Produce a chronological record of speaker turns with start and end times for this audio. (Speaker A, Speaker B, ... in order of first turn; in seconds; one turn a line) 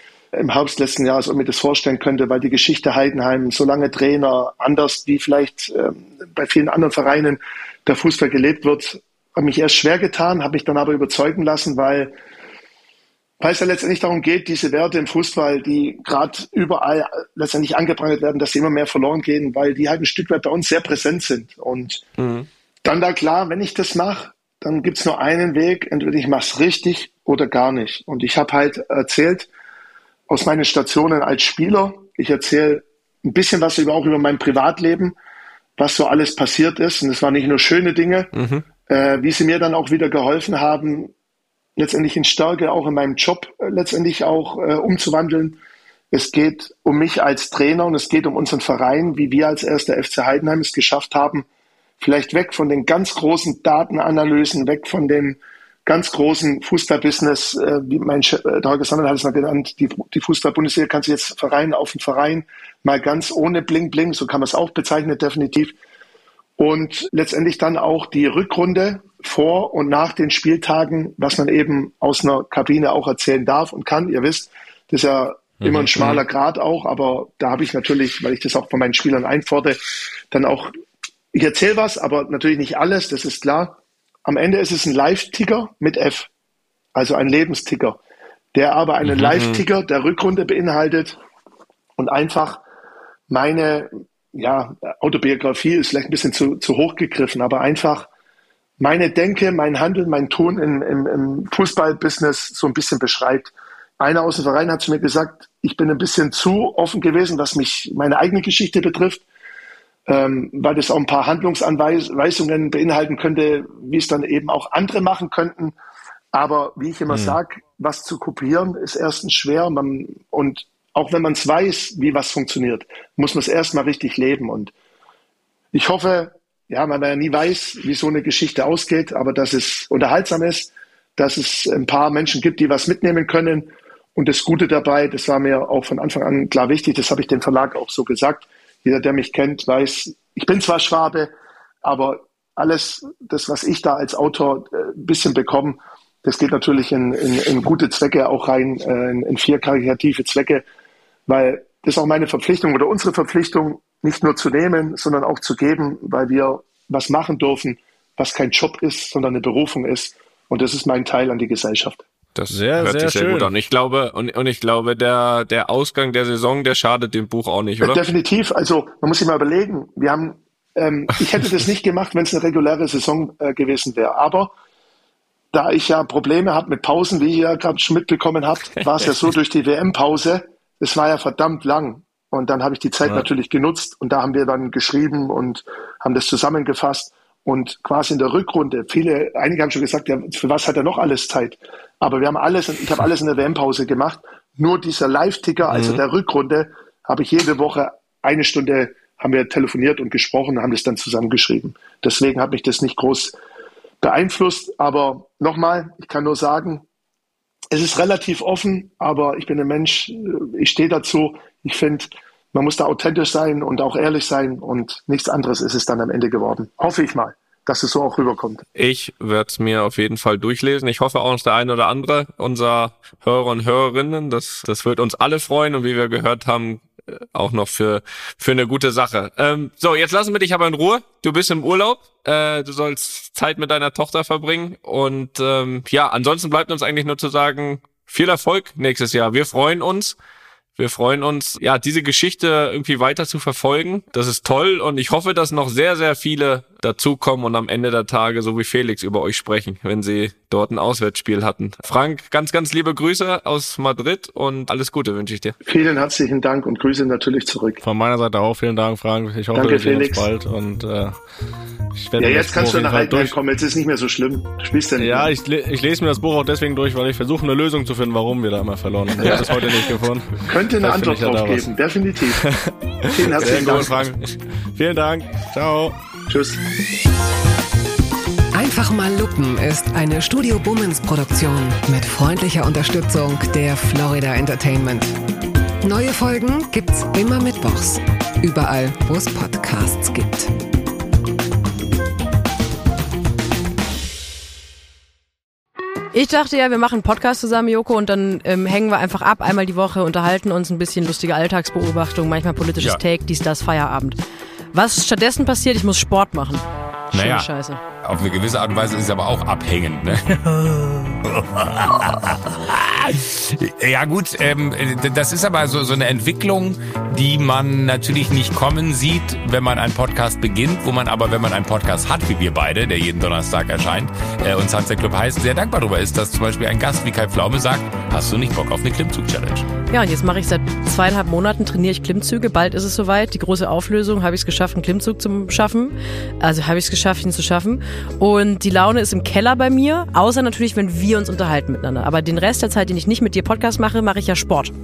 Speaker A: 0.3-12.1
Speaker A: 13.4-22.0
Speaker B: 22.2-22.5
Speaker A: 22.8-29.5
Speaker A: 30.3-35.1
Speaker A: 35.8-38.3
Speaker B: 38.3-38.6
Speaker A: 38.9-41.1
Speaker A: 41.8-45.6
Speaker A: 46.1-51.5
Speaker A: 52.0-65.8
Speaker A: 66.6-80.7
Speaker C: 75.6-75.9
Speaker B: 75.9-76.2
Speaker A: 81.3-86.3
Speaker A: 86.9-88.0
Speaker A: 88.5-91.2
Speaker B: 89.0-89.6
Speaker A: 92.0-92.6
Speaker A: 93.3-98.1
Speaker A: 98.8-109.2
Speaker A: 110.1-115.7
Speaker A: 116.3-124.7
Speaker A: 125.7-141.3
Speaker A: 141.8-150.6
Speaker A: 151.3-162.0
Speaker B: 162.3-168.0
Speaker C: 162.5-163.5
Speaker A: 167.8-174.5
Speaker A: 175.5-203.4
Speaker B: 195.7-196.0
Speaker A: 204.0-206.8
Speaker A: 207.7-218.6
Speaker B: 218.8-240.2
Speaker B: 240.8-255.6
Speaker A: 255.6-257.8
Speaker C: 257.8-261.1
Speaker A: 259.5-260.2
Speaker C: 261.9-263.4
Speaker A: 262.2-265.3
Speaker C: 265.0-271.7
Speaker B: 269.2-269.7
Speaker A: 270.5-272.4
Speaker C: 272.4-275.9
Speaker A: 273.1-273.9
Speaker A: 276.3-276.6
Speaker D: 278.5-285.1
Speaker D: 285.8-290.5
Speaker E: 296.1-304.2
Speaker E: 304.7-307.8
Speaker F: 307.1-307.5
Speaker F: 308.0-329.6
Speaker E: 329.9-344.7